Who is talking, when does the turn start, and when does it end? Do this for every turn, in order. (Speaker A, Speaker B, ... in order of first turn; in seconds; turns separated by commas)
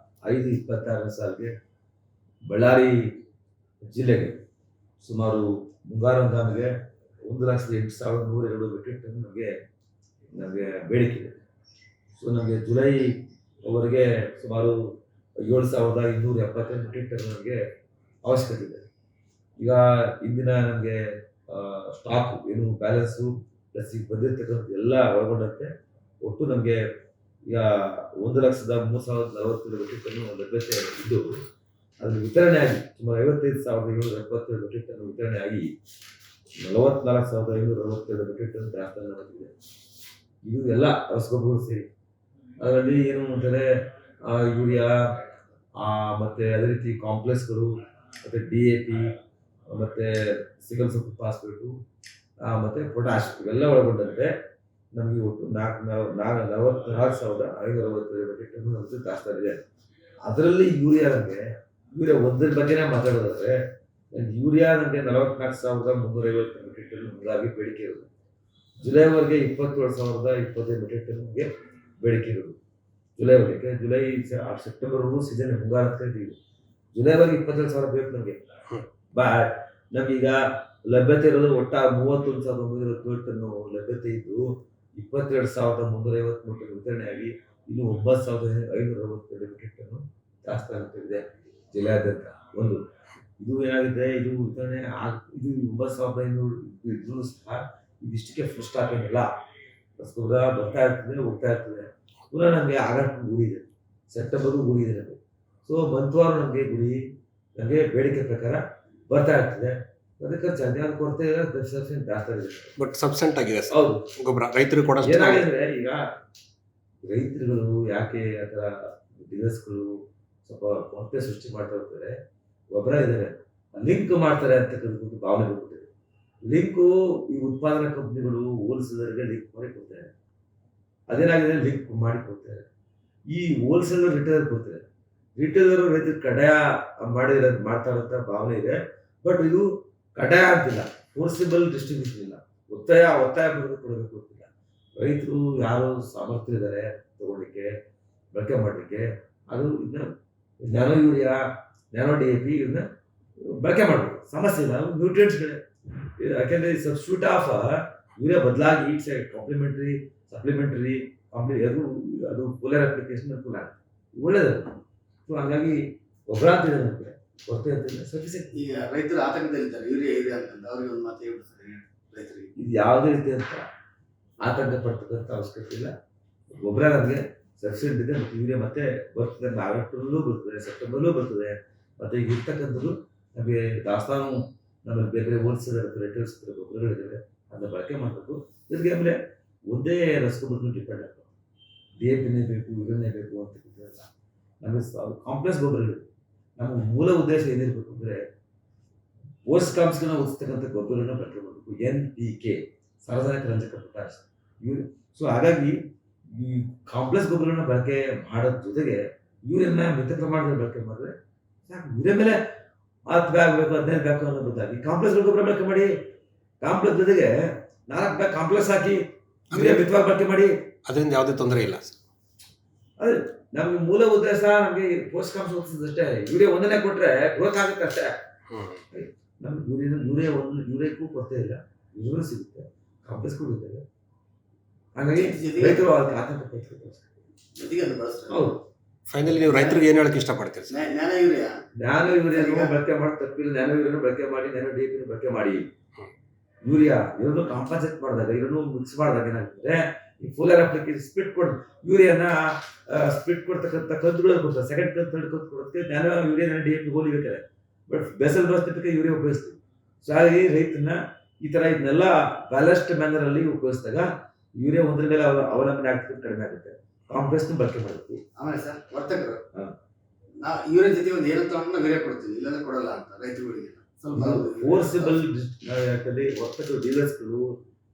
Speaker A: 0.2-1.5, Speaker A: 2.5-3.0, Speaker A: 3.9-4.4, Speaker A: 5.0-6.7, Speaker A: 7.3-9.5, Speaker A: 10.3-11.4, Speaker A: 12.1-14.8, Speaker A: 15.4-17.6, Speaker A: 18.2-18.9, Speaker A: 19.6-25.7, Speaker A: 26.2-26.8, Speaker A: 27.5-31.2, Speaker A: 32.0-35.7, Speaker A: 36.6-39.5, Speaker A: 40.4-41.9, Speaker A: 42.6-43.6, Speaker A: 44.3-44.9, Speaker A: 45.8-47.7, Speaker A: 48.2-49.1, Speaker A: 49.7-51.7, Speaker A: 52.4-54.3, Speaker A: 54.9-59.6, Speaker A: 60.2-63.5, Speaker A: 64.1-68.1, Speaker A: 68.8-71.5, Speaker A: 72.0-72.5, Speaker A: 73.2-76.3, Speaker A: 76.9-78.4, Speaker A: 79.1-92.8, Speaker A: 93.4-99.3, Speaker A: 100.0-107.0, Speaker A: 107.5-112.7, Speaker B: 112.8-115.4, Speaker A: 113.7-114.1, Speaker A: 115.0-116.0, Speaker A: 117.0-119.9, Speaker A: 120.4-122.2, Speaker A: 122.7-125.8, Speaker A: 126.4-130.1, Speaker A: 131.1-132.7, Speaker A: 133.3-134.8, Speaker A: 135.4-147.7, Speaker A: 148.3-150.1, Speaker A: 150.6-151.4, Speaker A: 151.9-152.8, Speaker A: 153.4-155.6, Speaker A: 156.2-164.8, Speaker A: 165.3-168.5, Speaker C: 168.5-172.5, Speaker A: 172.6-173.6, Speaker A: 174.4-175.9, Speaker A: 176.5-189.2, Speaker A: 189.7-191.3, Speaker A: 192.0-194.1, Speaker A: 194.6-196.0, Speaker A: 196.6-198.2, Speaker A: 199.5-205.8, Speaker A: 206.3-211.1, Speaker A: 211.7-212.4, Speaker A: 213.1-215.9, Speaker A: 216.6-217.4, Speaker A: 217.9-219.0, Speaker A: 219.5-220.5, Speaker B: 220.8-222.0, Speaker A: 223.0-228.1, Speaker B: 228.5-228.8, Speaker A: 228.9-233.8, Speaker A: 234.9-237.0, Speaker C: 235.1-235.8, Speaker C: 237.6-238.4, Speaker A: 238.3-238.6, Speaker B: 239.1-240.8, Speaker C: 239.4-239.8, Speaker C: 240.7-241.5, Speaker A: 241.8-245.7, Speaker C: 242.3-242.7, Speaker A: 246.6-268.2, Speaker C: 268.4-269.4, Speaker C: 270.4-275.2, Speaker A: 274.1-277.5